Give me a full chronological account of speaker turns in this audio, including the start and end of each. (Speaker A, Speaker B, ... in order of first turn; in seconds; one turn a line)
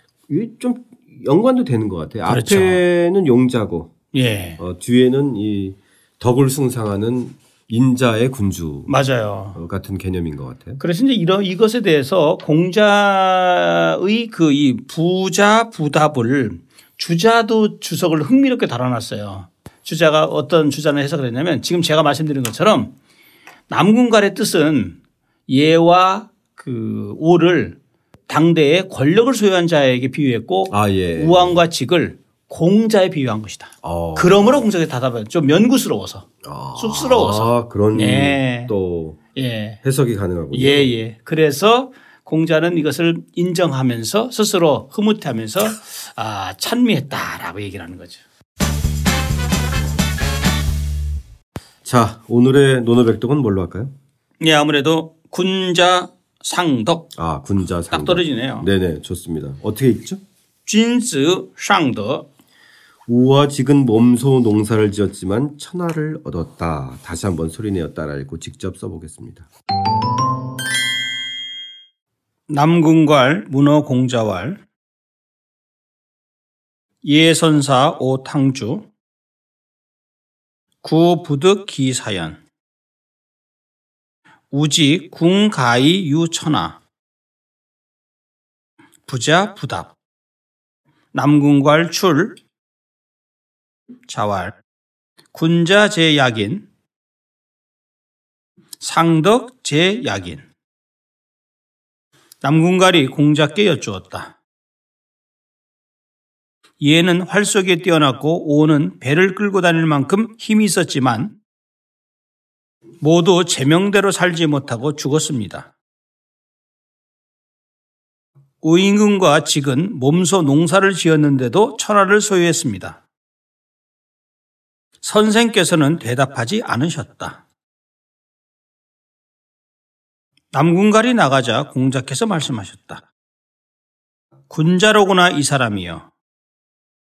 Speaker A: 0.3-3.9
Speaker B: 2.2-2.8
Speaker B: 4.1-4.6
Speaker A: 4.6-8.9
Speaker B: 8.9-9.6
Speaker A: 9.5-10.8
Speaker B: 10.8-22.9
Speaker B: 23.7-25.0
Speaker B: 25.5-27.8
Speaker B: 28.3-36.2
Speaker A: 30.7-31.6
Speaker A: 33.8-34.7
Speaker A: 36.4-39.2
Speaker B: 36.8-38.7
Speaker B: 39.3-39.8
Speaker A: 39.8-40.9
Speaker B: 40.5-48.2
Speaker A: 51.8-53.9
Speaker B: 54.4-57.1
Speaker A: 57.1-60.2
Speaker B: 57.9-58.7
Speaker B: 60.6-62.2
Speaker A: 63.1-69.5
Speaker B: 72.5-74.6
Speaker B: 77.0-78.9
Speaker B: 80.8-82.4
Speaker B: 84.5-86.8
Speaker B: 89.1-89.9
Speaker B: 91.1-92.4
Speaker B: 94.1-94.6
Speaker B: 95.3-96.7
Speaker B: 98.8-100.4
Speaker B: 102.4-104.3
Speaker B: 106.8-111.3
Speaker B: 113.0-115.7
Speaker B: 118.6-123.0
Speaker B: 125.0-127.4
Speaker B: 130.5-133.0
Speaker B: 134.5-136.1